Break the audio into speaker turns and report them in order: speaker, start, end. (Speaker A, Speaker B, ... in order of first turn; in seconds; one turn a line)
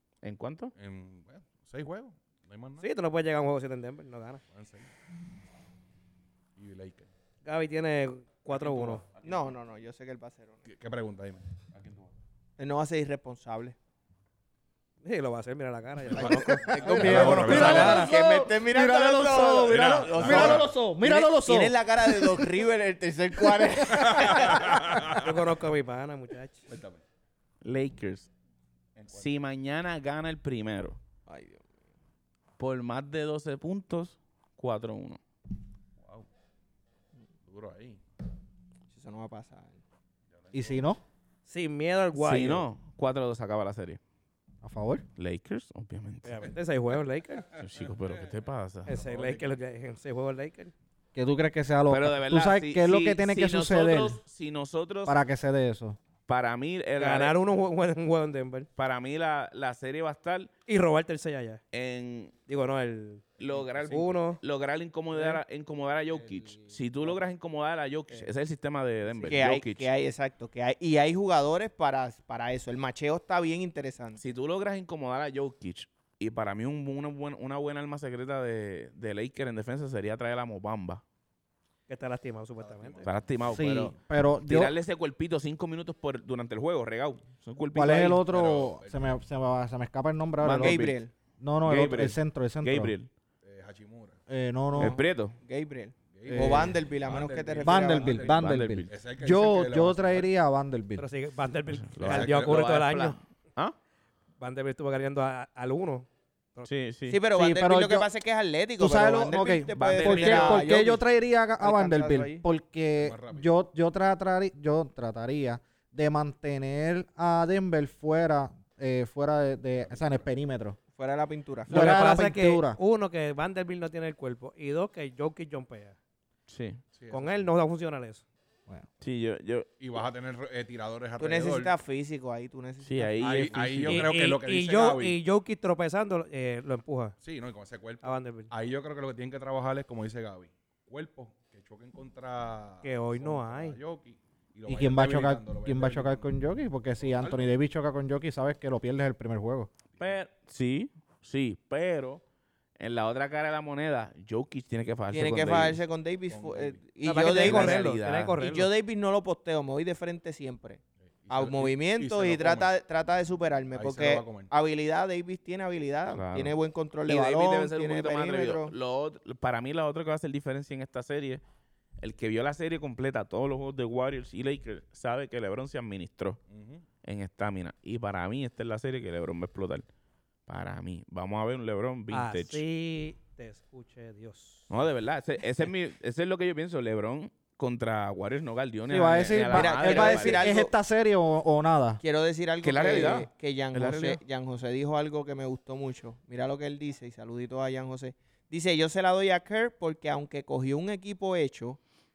Speaker A: 0.2-0.7
Speaker B: 0.7-2.9
Speaker C: 2.8-4.4
Speaker B: 4.5-4.9
Speaker B: 6.5-7.1
Speaker C: 7.4-9.0
Speaker B: 8.5-9.5
Speaker D: 9.2-10.7
Speaker B: 10.7-12.1
Speaker D: 12.6-13.8
Speaker C: 15.0-18.1
Speaker B: 16.1-18.1
Speaker D: 16.2-25.0
Speaker E: 16.3-22.6
Speaker B: 19.6-20.7
Speaker E: 23.5-24.6
Speaker B: 23.9-25.3
Speaker C: 25.1-26.7
Speaker B: 26.7-27.0
Speaker A: 27.6-28.3
Speaker B: 28.9-29.3
Speaker A: 29.1-31.0
Speaker D: 31.3-31.6
Speaker A: 32.6-35.2
Speaker B: 36.0-36.3
Speaker B: 37.5-38.0
Speaker D: 38.9-39.8
Speaker B: 40.3-40.8
Speaker E: 40.5-41.0
Speaker C: 41.5-42.6
Speaker A: 42.1-44.0
Speaker E: 44.6-45.0
Speaker A: 45.1-46.4
Speaker C: 46.2-47.5
Speaker B: 47.6-48.3
Speaker A: 47.6-48.9
Speaker C: 48.9-50.7
Speaker B: 48.9-49.5
Speaker E: 51.1-54.2
Speaker A: 51.9-55.2
Speaker E: 55.0-56.0
Speaker A: 56.3-57.3
Speaker C: 57.0-58.7
Speaker A: 58.8-60.5
Speaker C: 60.7-61.6
Speaker A: 61.7-62.3
Speaker C: 62.5-63.3
Speaker A: 63.4-69.9
Speaker B: 63.4-64.0
Speaker C: 63.8-64.4
Speaker C: 65.1-65.4
Speaker C: 69.0-69.4
Speaker D: 69.2-74.2
Speaker A: 74.2-81.0
Speaker C: 81.9-83.1
Speaker B: 82.6-83.6
Speaker A: 83.0-83.9
Speaker E: 83.5-84.7
Speaker A: 84.5-88.2
Speaker E: 87.7-90.8
Speaker B: 88.3-89.2
Speaker A: 90.4-91.0
Speaker D: 90.6-91.1
Speaker E: 91.4-92.9
Speaker A: 91.6-93.1
Speaker B: 93.4-94.2
Speaker E: 94.3-95.0
Speaker D: 94.7-98.4
Speaker A: 94.8-95.3
Speaker B: 96.1-100.3
Speaker E: 96.2-96.8
Speaker E: 97.6-101.0
Speaker A: 98.3-98.9
Speaker C: 101.0-103.2
Speaker A: 101.8-103.8
Speaker B: 102.0-102.8
Speaker C: 104.4-106.7
Speaker A: 106.7-107.2
Speaker D: 107.1-111.0
Speaker E: 107.3-108.1
Speaker E: 108.8-120.8
Speaker A: 109.8-110.7
Speaker D: 111.6-112.4
Speaker B: 113.0-113.5
Speaker B: 119.8-120.3
Speaker D: 120.9-122.0
Speaker E: 121.7-122.8
Speaker C: 121.7-126.0
Speaker A: 126.5-126.8
Speaker B: 126.9-127.5
Speaker C: 127.1-128.2
Speaker A: 129.0-129.7
Speaker B: 129.8-131.7
Speaker D: 131.2-133.6
Speaker A: 132.8-134.0
Speaker B: 133.2-135.2
Speaker C: 133.8-137.2
Speaker B: 137.2-146.3
Speaker C: 138.0-138.5
Speaker C: 142.8-143.8
Speaker E: 144.7-149.7
Speaker B: 147.0-147.5
Speaker A: 150.0-152.2
Speaker A: 152.8-155.8
Speaker D: 155.1-157.9
Speaker B: 156.3-156.8
Speaker C: 157.0-158.7
Speaker A: 157.2-158.3
Speaker D: 158.4-168.7
Speaker B: 161.2-162.7
Speaker B: 163.7-164.5
Speaker A: 166.1-166.5
Speaker A: 167.1-171.4
Speaker A: 172.0-176.4
Speaker B: 176.5-176.8
Speaker A: 177.0-179.8
Speaker A: 180.5-182.6
Speaker C: 182.1-184.7
Speaker A: 184.7-190.5
Speaker E: 188.9-192.0
Speaker D: 189.5-190.7
Speaker D: 192.0-201.8
Speaker A: 192.6-194.2